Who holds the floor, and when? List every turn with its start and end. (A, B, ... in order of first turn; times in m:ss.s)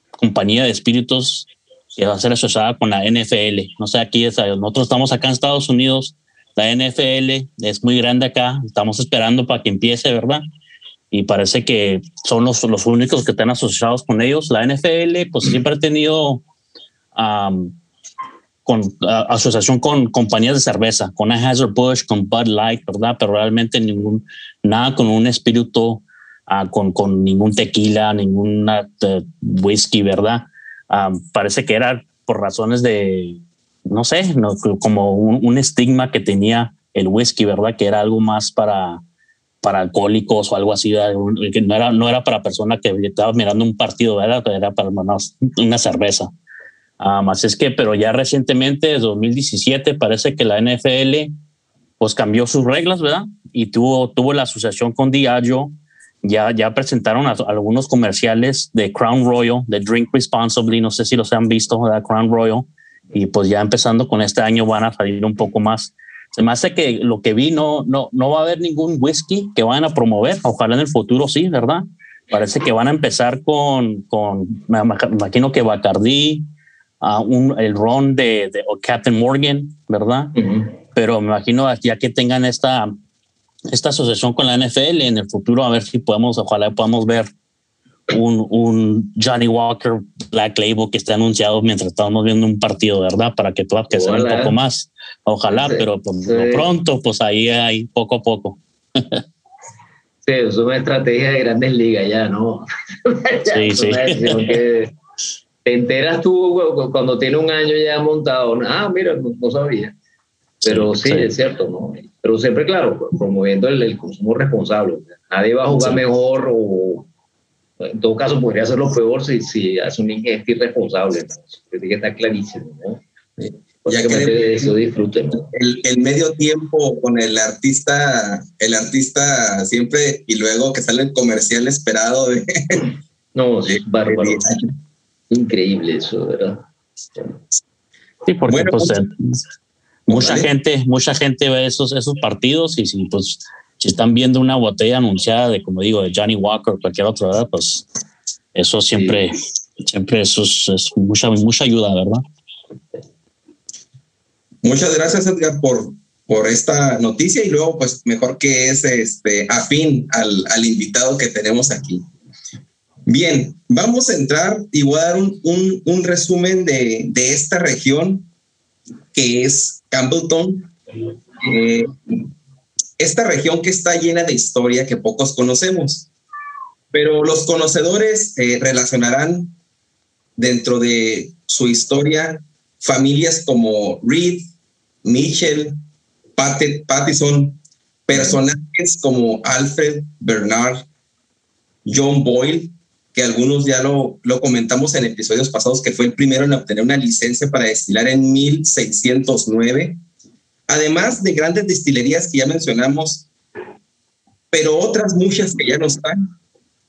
0:00.2-0:10.4 A
0:11.1-0:16.4 A
0:17.1-0:17.8 A
0:18.6-0:39.0 A
0:39.6-0:46.3 A
0:47.0-0:51.3 A
0:52.0-0:55.7 A
0:56.2-1:16.4 A
1:17.0-1:23.0 A
1:20.4-1:20.7 B
1:23.7-1:27.3 A
1:28.1-1:39.2 A
1:33.9-1:34.5 B
1:35.5-1:36.7 B
1:40.2-1:44.9 B
1:43.5-1:44.4 A
1:45.6-1:49.9 B
1:50.6-1:51.3 A
1:50.6-1:57.1 B
1:55.7-1:56.0 A
1:57.8-2:03.0 B
2:03.4-2:04.7 C
2:03.8-2:05.5 B
2:05.5-2:12.8 C
2:13.3-2:14.5 B
2:13.7-2:14.6 C
2:15.3-2:16.6 B
2:18.3-2:19.4 A
2:18.5-2:19.0 C
2:20.1-2:20.5 C
2:20.1-2:27.9 A
2:28.5-2:32.2 A
2:29.0-2:29.2 B
2:34.6-2:42.0 C
2:43.1-2:48.3 C
2:49.1-2:50.7 C
2:51.4-2:52.2 C
2:53.0-2:56.1 C
2:56.9-2:59.5 C
3:00.4-3:04.4 C
3:05.0-3:05.8 C
3:06.4-3:10.8 C
3:11.8-3:20.0 C
3:20.7-3:23.3 C
3:24.5-3:26.2 C